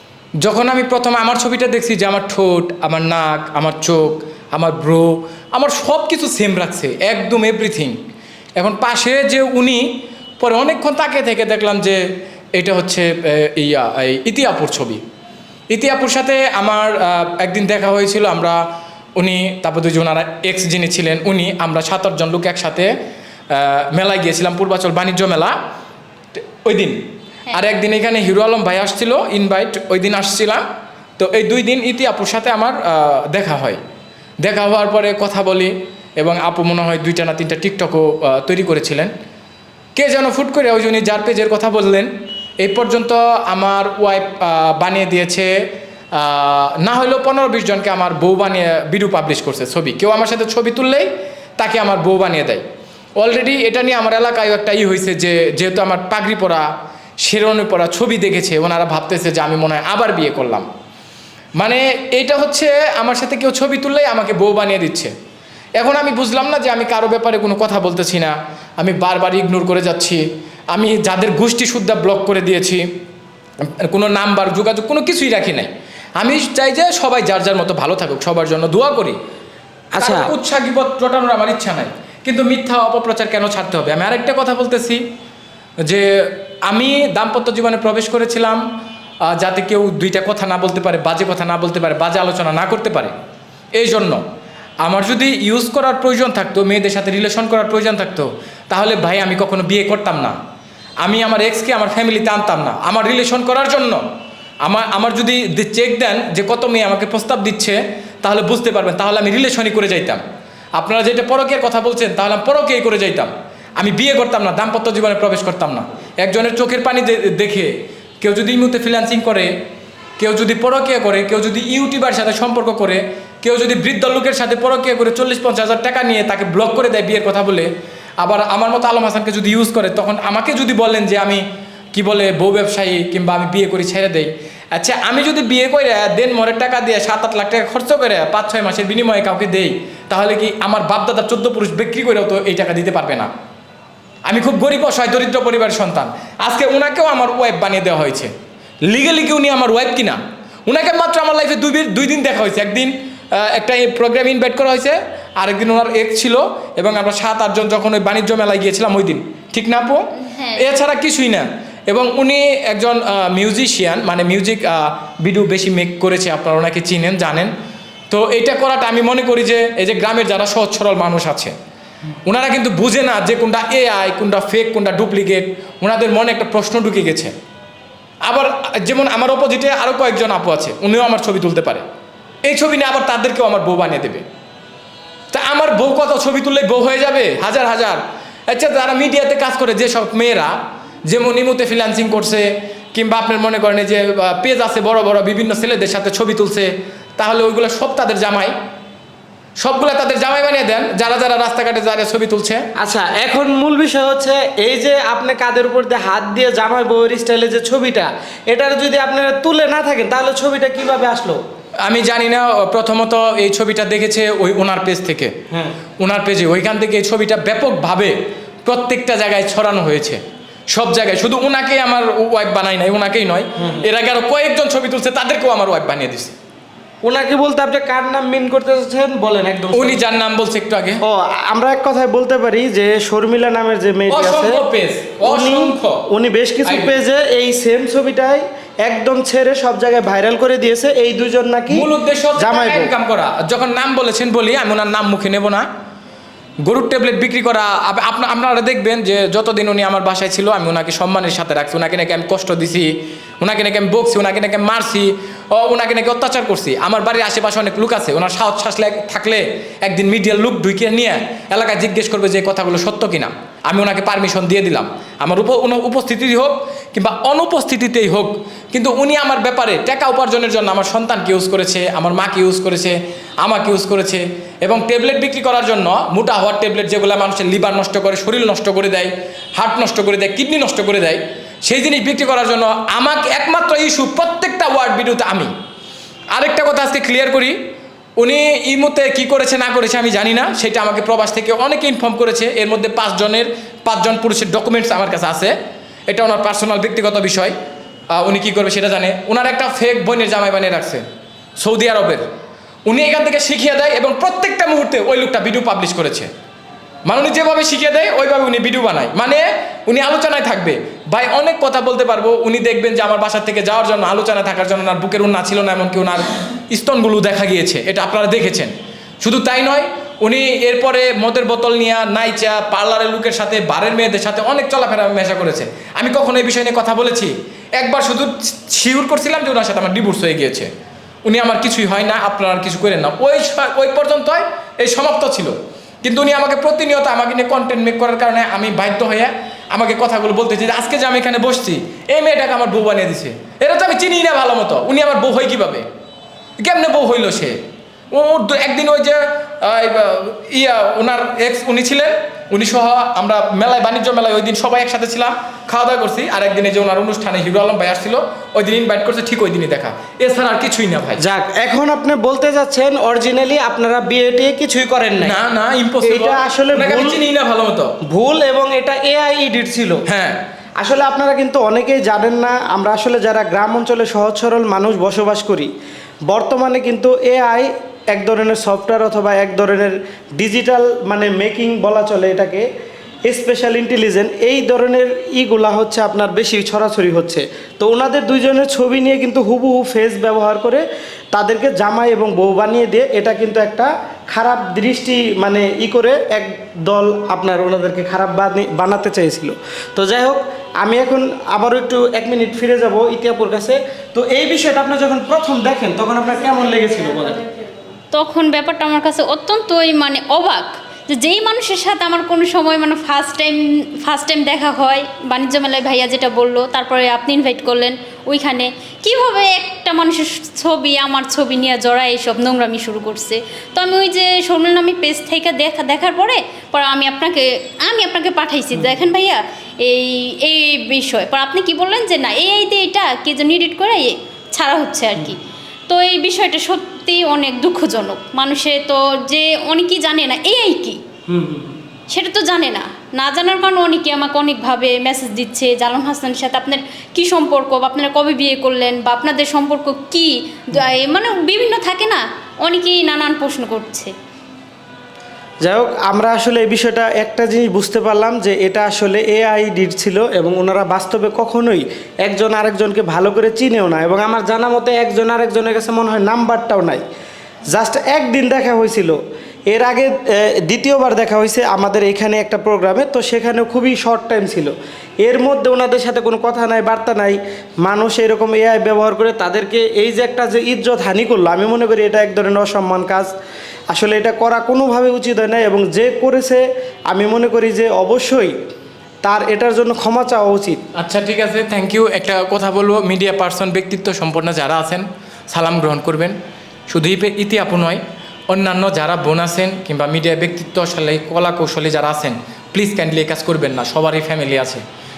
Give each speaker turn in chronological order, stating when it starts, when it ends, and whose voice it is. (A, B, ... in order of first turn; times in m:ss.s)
0:00.4-0:08.0 A
0:08.6-0:12.0 A
0:12.6-0:15.0 A
0:15.7-0:18.6 A
0:19.2-0:22.9 A
0:23.5-0:25.6 A
0:26.4-0:27.0 A
0:27.5-0:30.6 A
0:31.2-0:33.8 A
0:34.4-0:39.1 A
0:40.0-0:45.5 A
0:46.1-0:52.6 A
0:53.2-0:56.7 A
0:57.2-1:00.7 A
1:01.6-1:05.1 A
1:05.8-1:12.8 A
1:13.6-1:19.2 A
1:20.0-1:20.3 B
1:20.0-1:25.0 A
1:25.9-1:28.6 A
1:29.3-1:33.1 A
1:33.8-1:34.2 A
1:34.8-1:40.4 A
1:41.0-1:44.0 A
1:44.6-1:50.2 A
1:50.8-1:57.7 A
1:58.2-1:59.5 A
2:00.2-2:07.7 A
2:08.2-2:23.3 A
2:24.2-2:28.3 A
2:28.9-2:40.0 A
2:40.2-2:40.7 C
2:40.6-2:47.5 A
2:48.1-2:51.5 A
2:52.2-2:57.3 A
2:58.2-3:01.8 A
3:02.4-3:04.2 A
3:05.3-3:10.5 A
3:11.1-3:18.5 A
3:19.6-3:22.6 A
3:22.8-3:31.4 B
3:31.8-3:35.3 A
3:36.0-3:38.1 A
3:38.6-3:40.2 A
3:40.7-3:46.4 A
3:47.0-3:50.0 B
3:49.7-3:51.0 A
3:51.0-3:54.6 B
3:54.1-3:56.0 A
3:55.2-4:01.8 B
3:56.6-3:56.9 A
4:01.7-4:05.6 A
4:02.4-4:02.9 B
4:06.6-4:45.5 A
4:46.3-4:47.6 A
4:48.2-4:55.5 A
4:56.1-4:57.5 A
4:58.1-5:01.0 A
5:01.6-5:02.2 A
5:02.8-5:06.3 A
5:07.0-5:30.7 A
5:31.2-5:45.8 A
5:46.6-5:47.6 A
5:48.1-6:01.2 A
6:01.2-6:05.3 B
6:05.2-6:07.9 A
6:06.0-6:07.2 B
6:08.1-6:10.0 B
6:10.1-6:10.4 A
6:10.8-6:15.7 B
6:16.3-6:22.6 B
6:23.3-6:47.4 B
6:48.1-7:15.4 C
7:15.9-7:21.0 C
7:21.3-7:21.8 B
7:22.1-7:34.1 C
7:35.6-7:47.0 B
7:47.7-7:49.2 B
7:49.7-8:03.3 B
8:03.9-8:08.5 B
8:09.2-8:10.8 B
8:10.9-8:16.3 A
8:16.9-8:24.8 A